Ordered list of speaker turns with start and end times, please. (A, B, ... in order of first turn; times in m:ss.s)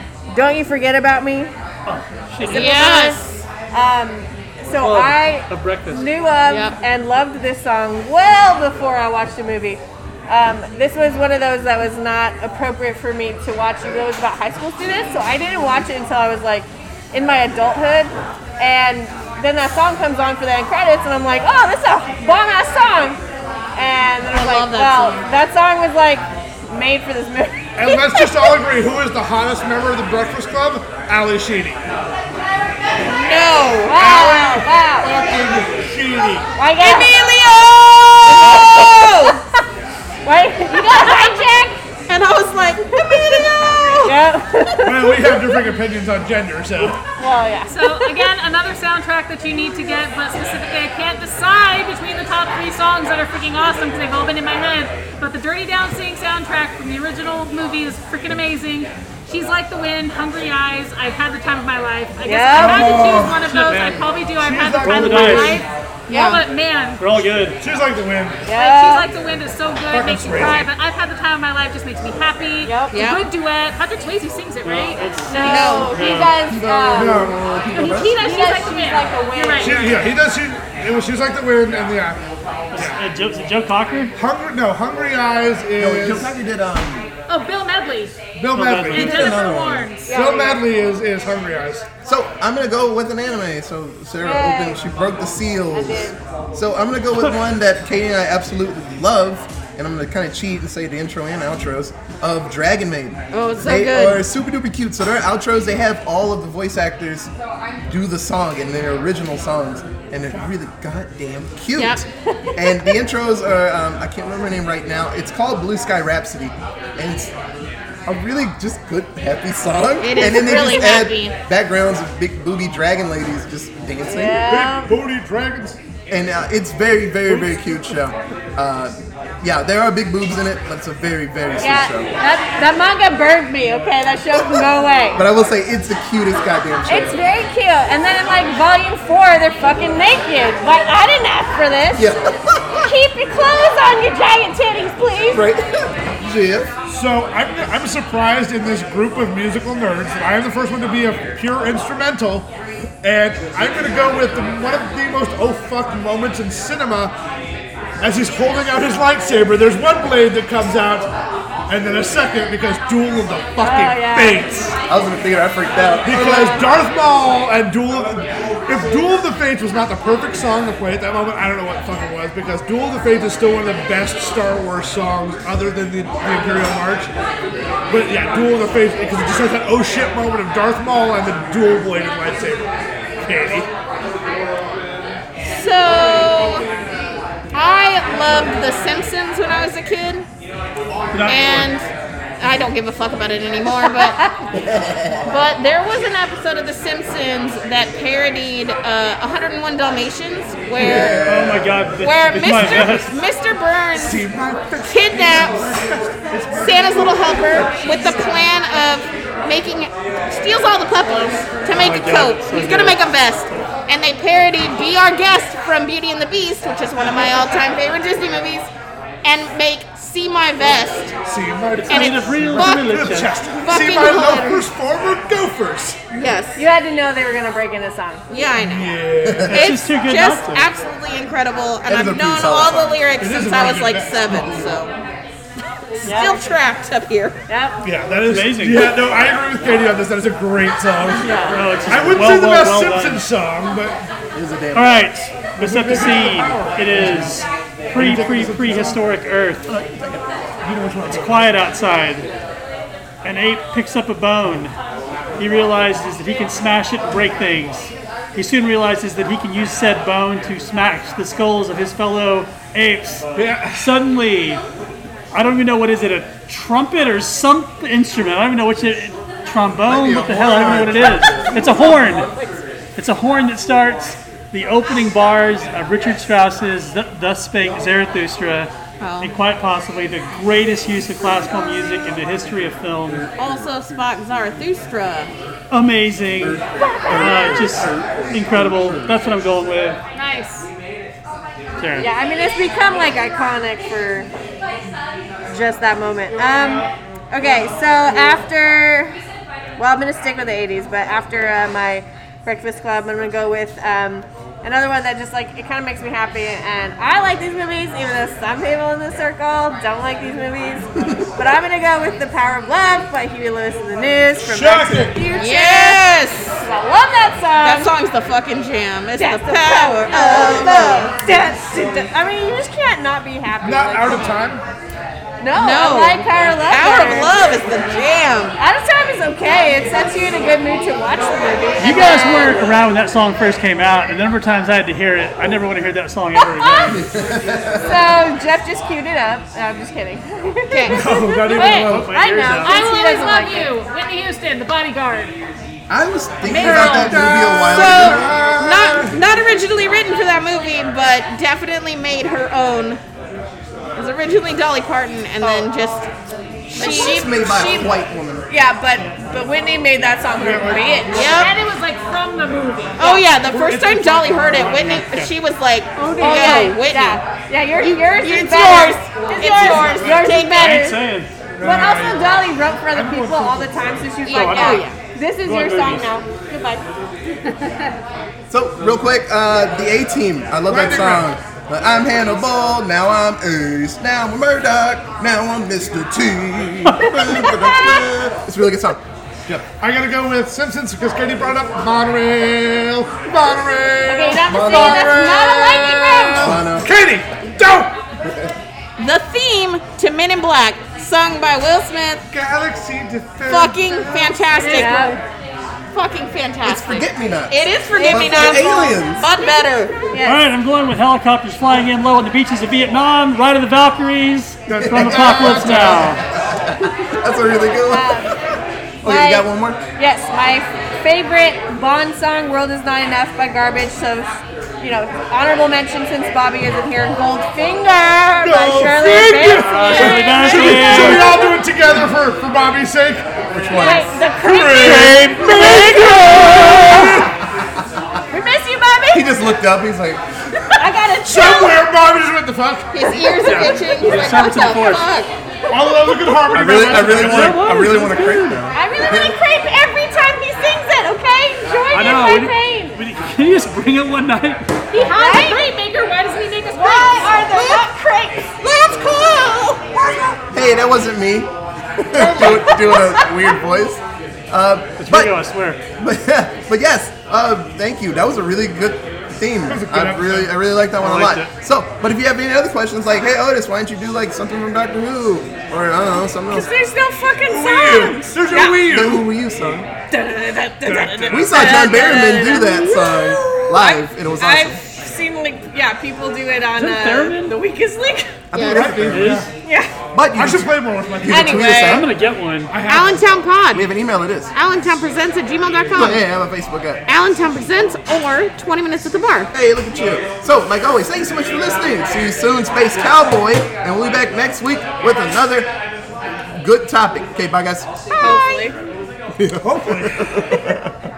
0:00.3-0:01.5 A
0:01.8-0:02.9 B
0:02.4-0:23.2 A
0:02.5-0:03.4 C
0:04.8-0:06.1 B
0:06.4-0:06.8 C
0:23.8-0:28.5 A
0:24.3-0:25.2 C
0:27.8-0:31.8 D
0:33.0-0:34.1 C
0:33.8-0:35.1 A
0:33.9-0:36.5 D
0:36.6-0:37.3 A
0:36.8-0:39.4 C
0:38.3-0:39.4 A
0:40.2-0:41.7 A
0:40.7-0:41.5 C
0:42.1-0:44.1 C
0:44.0-0:45.5 A
0:44.8-0:47.0 D
0:47.2-0:48.2 A
0:47.7-1:07.0 E
1:02.2-1:03.1 A
1:02.6-1:03.4 D
1:03.4-1:04.1 B
1:04.4-1:05.6 D
1:04.8-1:05.6 B
1:06.1-1:06.4 C
1:07.0-1:07.6 B
1:07.6-1:08.4 D
1:08.4-1:09.1 A
1:08.5-1:15.7 E
1:09.9-1:10.7 D
1:12.6-1:13.0 A
1:12.9-1:13.2 C
1:14.6-1:16.4 B
1:15.3-1:17.3 A
1:15.4-1:16.0 C
1:16.4-1:18.1 F
1:16.9-1:17.4 D
1:17.7-1:20.0 E
1:18.0-1:19.9 A
1:19.6-1:22.2 D
1:22.7-1:24.1 B
1:24.2-1:26.3 D
1:25.8-1:27.1 F
1:27.3-1:28.1 E
1:28.4-1:29.4 D
1:28.5-1:29.3 B
1:28.9-1:30.2 E
1:28.9-1:29.9 F
1:30.1-1:30.7 A
1:30.1-1:31.8 D
1:32.0-1:47.3 F
1:34.2-1:34.8 A
1:35.7-1:36.2 A
1:43.3-1:44.2 C
1:47.9-1:57.3 F
1:51.8-1:52.0 C
1:52.3-1:52.9 A
1:58.0-2:04.4 F
2:00.0-2:01.3 C
2:04.0-2:05.0 A
2:04.5-2:05.8 D
2:06.1-2:12.1 F
2:07.3-2:07.6 D
2:11.6-2:15.2 A
2:15.2-2:17.2 F
2:16.9-2:22.1 A
2:21.9-2:22.9 F
2:22.8-2:25.5 A
2:25.3-2:26.7 F
2:26.9-2:32.5 D
2:33.0-2:37.1 D
2:38.0-2:41.1 D
2:41.7-2:44.8 D
2:43.6-2:44.4 A
2:44.9-2:46.3 F
2:46.0-2:57.1 D
2:46.1-2:46.6 A
2:57.9-3:02.7 D
3:03.2-3:03.7 D
3:05.4-3:06.6 C
3:07.5-3:10.3 C
3:11.1-3:11.7 B
3:11.2-3:11.9 C
3:12.4-3:14.3 C
3:13.9-3:14.5 A
3:14.5-3:15.4 F
3:15.2-3:21.2 C
3:20.8-3:21.8 F
3:20.8-3:21.2 D
3:21.2-3:23.1 B
3:22.0-3:24.2 C
3:23.9-3:28.5 D
3:24.9-3:25.6 C
3:26.6-3:38.7 C
3:31.7-3:33.1 B
3:39.2-3:41.1 C
3:41.2-3:46.0 D
3:41.8-3:43.3 B
3:41.9-3:43.1 C
3:43.6-3:44.7 C
3:46.1-3:46.6 C
3:46.6-3:48.2 A
3:48.3-3:49.0 C
3:48.5-3:49.7 D
3:49.2-3:49.6 F
3:49.5-3:50.7 B
3:49.5-3:54.9 C
3:51.8-3:53.0 F
3:53.2-3:54.6 D
3:56.0-3:57.4 C
3:56.0-3:56.4 A
3:57.5-3:57.8 A
3:57.8-4:04.0 D
3:58.3-3:58.9 B
4:01.2-4:01.6 C
4:01.4-4:03.2 B
4:04.3-4:05.1 F
4:04.7-4:09.8 B
4:05.5-4:09.1 D
4:09.8-4:10.2 F
4:10.6-4:11.7 D
4:11.1-4:12.3 B
4:13.2-4:14.7 B
4:15.4-4:23.2 B
4:23.3-4:24.0 D
4:23.8-4:24.6 B
4:25.3-4:32.3 B
4:29.8-4:31.8 F
4:32.1-4:32.5 A
4:33.0-4:43.3 B
4:39.0-4:39.3 C
4:43.4-4:45.3 C
4:45.7-4:50.0 B
4:46.8-4:47.1 A
4:47.1-4:48.6 F
4:50.1-4:50.7 E
4:51.8-4:52.1 B
4:52.0-4:54.3 A
4:55.5-4:59.2 A
4:59.8-5:16.0 A
5:14.4-5:15.2 D
5:15.3-5:16.6 C
5:16.6-5:17.9 A
5:17.6-5:21.1 C
5:19.2-5:24.3 A
5:23.6-5:24.6 D
5:25.4-5:27.3 A
5:25.5-5:28.6 C
5:28.6-5:32.8 A
5:31.8-5:37.0 B
5:36.4-5:37.0 A
5:36.9-5:38.2 F
5:37.8-5:43.7 A
5:40.7-5:41.0 C
5:40.9-5:42.7 D
5:41.8-5:42.8 B
5:42.6-5:45.3 E
5:45.9-5:48.3 F
5:46.5-5:49.2 D
5:46.5-5:47.3 E
5:47.6-5:53.0 C
5:53.9-5:56.1 C
5:55.4-5:55.7 A
5:56.7-5:57.9 C
5:56.7-5:57.9 A
5:56.8-5:58.4 F
5:58.5-6:01.4 A
6:00.4-6:01.4 D
6:01.1-6:01.5 C
6:01.3-6:03.1 E
6:03.0-6:07.2 C
6:03.4-6:04.9 D
6:04.6-6:05.3 B
6:06.0-6:10.9 A
6:06.0-6:06.7 E
6:07.8-6:11.0 C
6:09.4-6:10.4 D
6:10.5-6:11.3 B
6:11.6-6:13.7 D
6:11.6-6:16.8 A
6:14.2-6:15.0 C
6:14.3-6:14.9 B
6:15.4-6:16.0 B
6:18.5-6:29.0 F
6:20.7-6:21.3 D
6:27.0-6:28.1 A
6:29.5-6:37.9 D
6:34.0-6:36.5 A
6:34.4-6:36.9 F
6:38.2-6:38.5 F
6:39.0-6:42.2 C
6:42.3-6:44.3 D
6:43.4-6:45.1 C
6:44.3-6:45.2 E
6:44.6-6:45.2 A
6:45.9-6:50.0 C
6:46.6-6:49.3 F
6:47.9-6:48.9 A
6:50.1-6:50.4 A
6:50.2-6:56.2 B
6:54.7-6:56.2 D
6:54.8-6:58.4 F
6:57.9-6:58.3 A
6:59.0-6:59.4 A
6:59.0-6:59.8 F
7:00.0-7:11.6 A
7:08.4-7:17.3 D
7:09.7-7:11.3 B
7:09.7-7:11.1 E
7:13.5-7:14.1 F
7:13.7-7:17.2 A
7:14.8-7:16.0 B
7:18.3-7:19.4 A
7:19.1-7:20.2 F
7:20.7-7:21.9 A
7:21.2-7:24.0 D
7:22.9-7:25.3 C
7:23.9-7:25.1 B
7:25.7-7:26.4 A
7:25.7-7:27.6 D
7:26.5-7:29.3 F
7:27.0-7:28.6 B
7:28.7-7:32.9 A
7:31.9-7:34.6 B
7:34.9-7:37.4 E
7:35.0-7:35.7 A
7:36.7-7:38.6 A
7:37.2-7:37.8 C
7:38.6-7:39.9 C
7:40.5-7:45.4 F
7:42.1-7:42.9 D
7:42.7-7:43.0 A
7:45.0-7:45.8 B
7:46.0-7:56.7 F
7:49.6-7:50.5 D
7:51.0-7:51.5 B
7:56.5-7:58.8 A
7:57.5-7:59.3 D
7:58.8-7:59.9 F
8:00.1-8:08.3 A
8:00.8-8:02.3 D
8:01.3-8:04.8 F
8:06.8-8:07.5 B
8:08.5-8:09.4 F
8:08.5-8:09.0 C
8:08.7-8:09.5 D
8:09.0-8:09.5 B
8:09.6-8:09.9 A
8:10.1-8:12.1 F
8:10.3-8:11.9 D
8:11.3-8:12.0 A
8:11.6-8:12.7 B
8:12.7-8:13.4 D
8:12.8-8:13.9 C
8:13.7-8:14.5 F
8:14.5-8:16.2 C
8:15.9-8:17.0 F
8:17.1-8:19.5 C
8:19.5-8:25.7 F
8:26.6-8:27.9 F
8:28.1-8:28.7 A
8:28.1-8:28.7 C
8:29.4-8:30.9 F
8:29.6-8:30.4 D